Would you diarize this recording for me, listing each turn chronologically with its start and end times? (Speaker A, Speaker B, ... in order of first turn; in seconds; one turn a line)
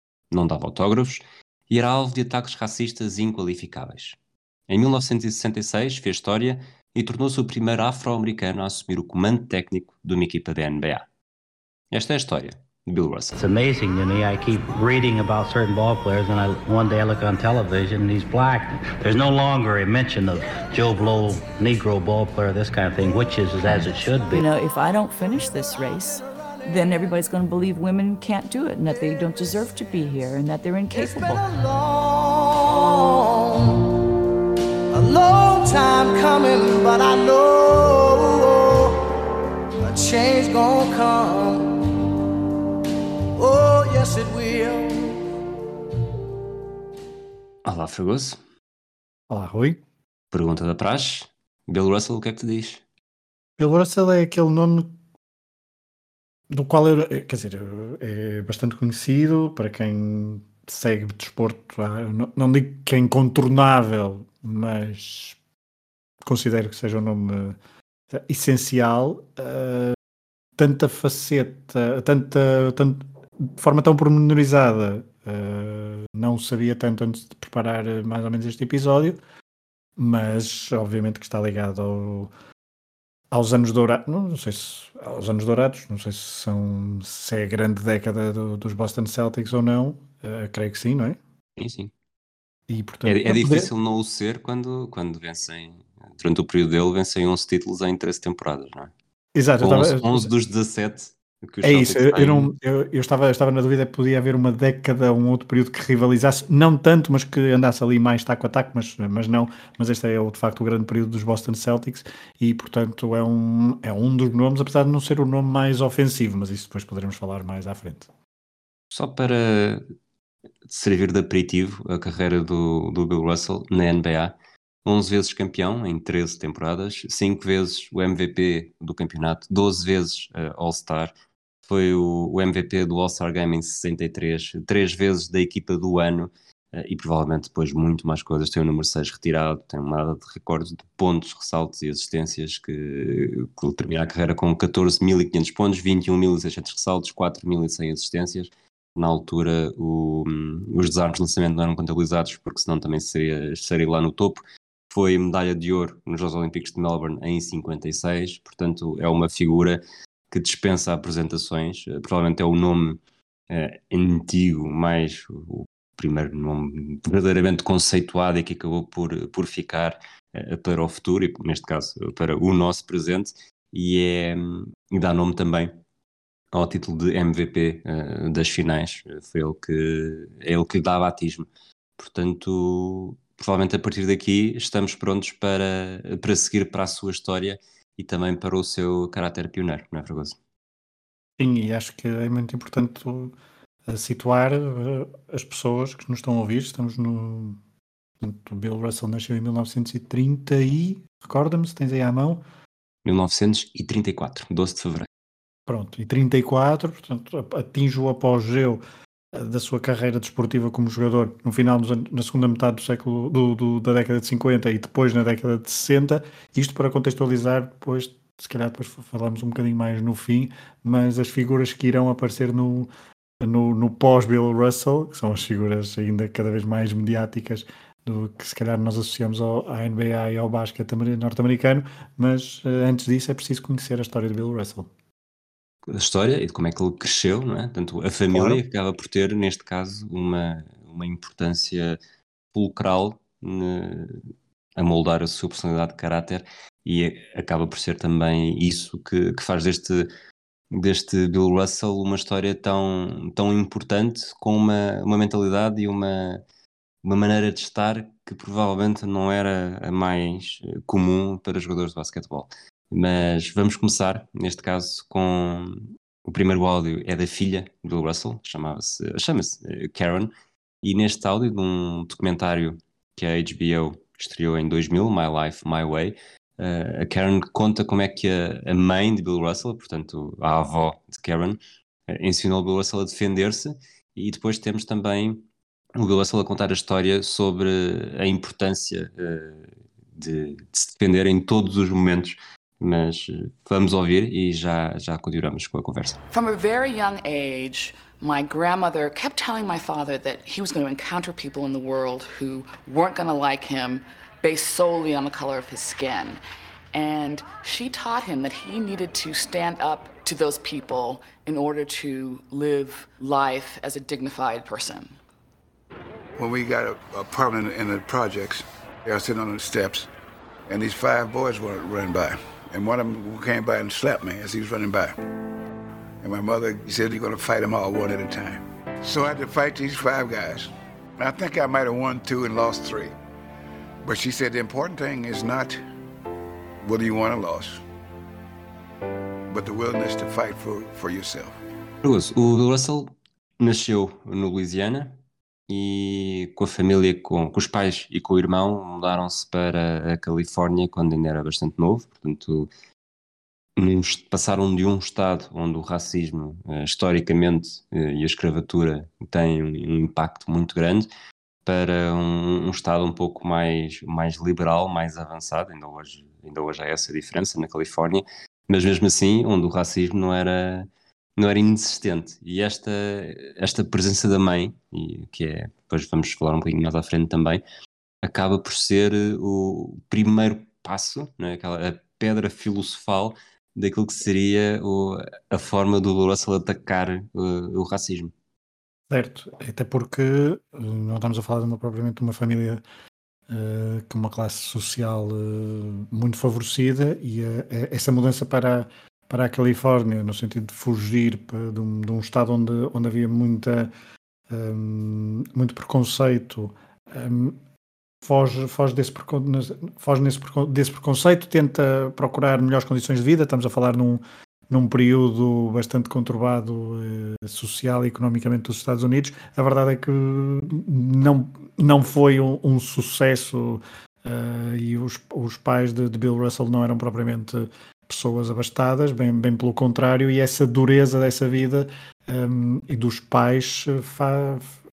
Speaker A: 0.3-4.2
Speaker A: 4.7-11.1
Speaker A: 11.9-13.4
Speaker B: 13.4-24.5
Speaker C: 24.3-31.4
Speaker D: 26.1-26.9
Speaker D: 30.9-33.9
Speaker D: 34.9-39.1
Speaker D: 39.8-41.8
Speaker D: 43.4-45.2
Speaker A: 47.6-48.4
Speaker E: 49.3-49.8
Speaker A: 50.3-52.8
Speaker E: 53.6-54.9
Speaker E: 56.5-65.4
Speaker E: 66.2-67.6
Speaker E: 68.1-70.0
Speaker E: 70.6-79.2
Speaker E: 80.0-82.3
Speaker E: 83.3-91.2
Speaker A: 91.6-91.9
Speaker E: 92.7-93.7
Speaker A: 93.0-98.9
Speaker E: 99.3-100.3
Speaker A: 99.6-102.5
Speaker E: 101.6-118.1
Speaker A: 118.9-119.9
Speaker A: 120.7-131.1
Speaker A: 131.7-175.8
Speaker A: 176.5-190.4
Speaker E: 191.4-193.4
Speaker E: 193.9-197.6
Speaker E: 198.2-202.4
Speaker A: 203.1-205.1
Speaker E: 205.7-208.8
Speaker E: 209.3-222.9
Speaker E: 223.4-234.9
Speaker A: 235.9-242.0
Speaker E: 238.3-238.6
Speaker A: 242.5-244.2
Speaker A: 244.8-250.1
Speaker A: 250.7-256.4
Speaker A: 257.0-270.3
Speaker A: 270.8-285.4
Speaker A: 285.9-296.2
Speaker F: 296.3-306.4
Speaker F: 306.9-315.2
Speaker G: 316.4-320.1
Speaker G: 320.7-325.2
Speaker G: 326.2-333.1
Speaker G: 334.0-335.8
Speaker G: 336.8-337.8
Speaker G: 339.5-341.6
Speaker A: 342.0-352.7
Speaker A: 353.8-361.1
Speaker A: 361.6-377.6
Speaker A: 378.2-388.3
Speaker E: 389.1-392.8
Speaker E: 393.5-403.9
Speaker E: 404.5-407.6
Speaker E: 408.2-434.8